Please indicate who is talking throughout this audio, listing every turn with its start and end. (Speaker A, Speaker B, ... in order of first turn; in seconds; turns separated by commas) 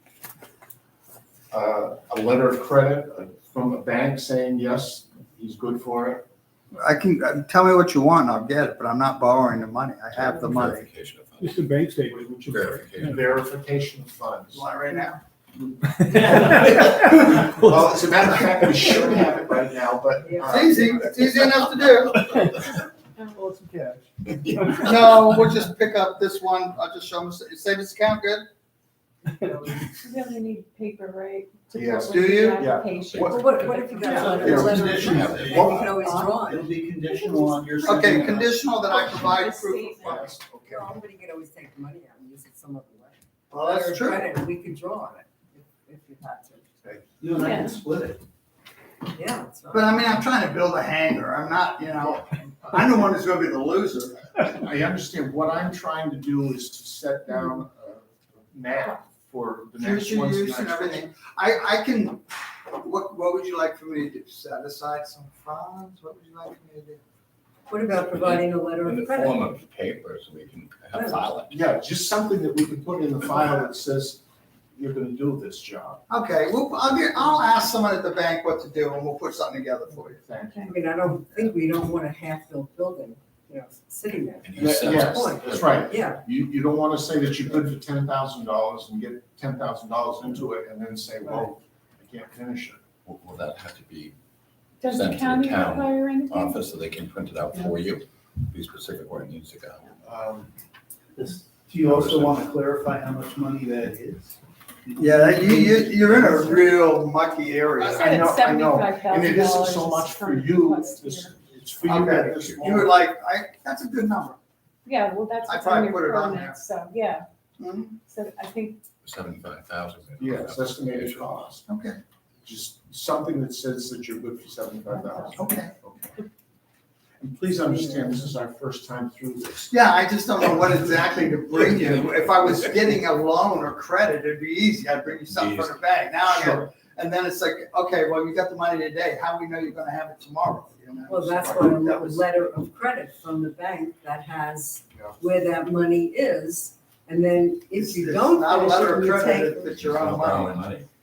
Speaker A: 1.5-6.2, Speaker B: 6.7-10.9, Speaker C: 10.1-13.4, Speaker A: 12.0-14.7, Speaker B: 14.5-15.2, Speaker D: 16.0-16.9, Speaker A: 16.1-20.9, Speaker E: 20.2-21.2, Speaker B: 20.4-22.2, Speaker D: 23.3-24.9, Speaker B: 24.8-28.4, Speaker E: 29.2-29.9, Speaker F: 30.0-34.9, Speaker A: 31.7-33.6, Speaker B: 32.1-32.6, Speaker E: 33.2-36.6, Speaker D: 34.0-38.8, Speaker A: 34.3-35.9, Speaker C: 35.0-35.9, Speaker B: 37.8-40.4, Speaker F: 38.9-40.2, Speaker A: 40.0-41.0, Speaker E: 40.6-46.8, Speaker B: 43.5-44.3, Speaker D: 47.2-48.2, Speaker F: 47.4-47.8, Speaker E: 49.1-50.1, Speaker B: 49.7-54.3, Speaker A: 54.4-61.1, Speaker B: 59.8-67.0, Speaker E: 67.7-69.5, Speaker C: 68.0-71.6, Speaker E: 70.9-71.2, Speaker A: 71.5-76.0, Speaker B: 76.1-80.2, Speaker A: 80.2-80.7, Speaker F: 80.4-80.7, Speaker E: 80.6-86.2, Speaker C: 84.4-85.9, Speaker A: 84.6-92.8, Speaker E: 91.2-91.5, Speaker C: 93.0-94.1, Speaker F: 94.8-96.7, Speaker C: 94.8-99.9, Speaker A: 100.0-100.5, Speaker D: 101.1-106.7, Speaker C: 101.9-102.5, Speaker B: 105.0-108.1, Speaker A: 107.8-113.0, Speaker F: 107.9-111.4, Speaker B: 111.8-114.4, Speaker F: 114.8-117.2, Speaker B: 115.4-116.6, Speaker B: 117.6-118.0, Speaker F: 118.0-118.8, Speaker C: 119.0-121.5, Speaker A: 120.2-121.6, Speaker B: 121.7-122.0, Speaker A: 122.4-126.2, Speaker F: 124.9-125.4, Speaker B: 125.3-125.7, Speaker A: 127.2-129.7, Speaker B: 129.7-142.3, Speaker C: 135.2-135.8, Speaker E: 141.1-149.8, Speaker A: 141.4-141.7, Speaker B: 147.7-150.6, Speaker C: 149.7-150.9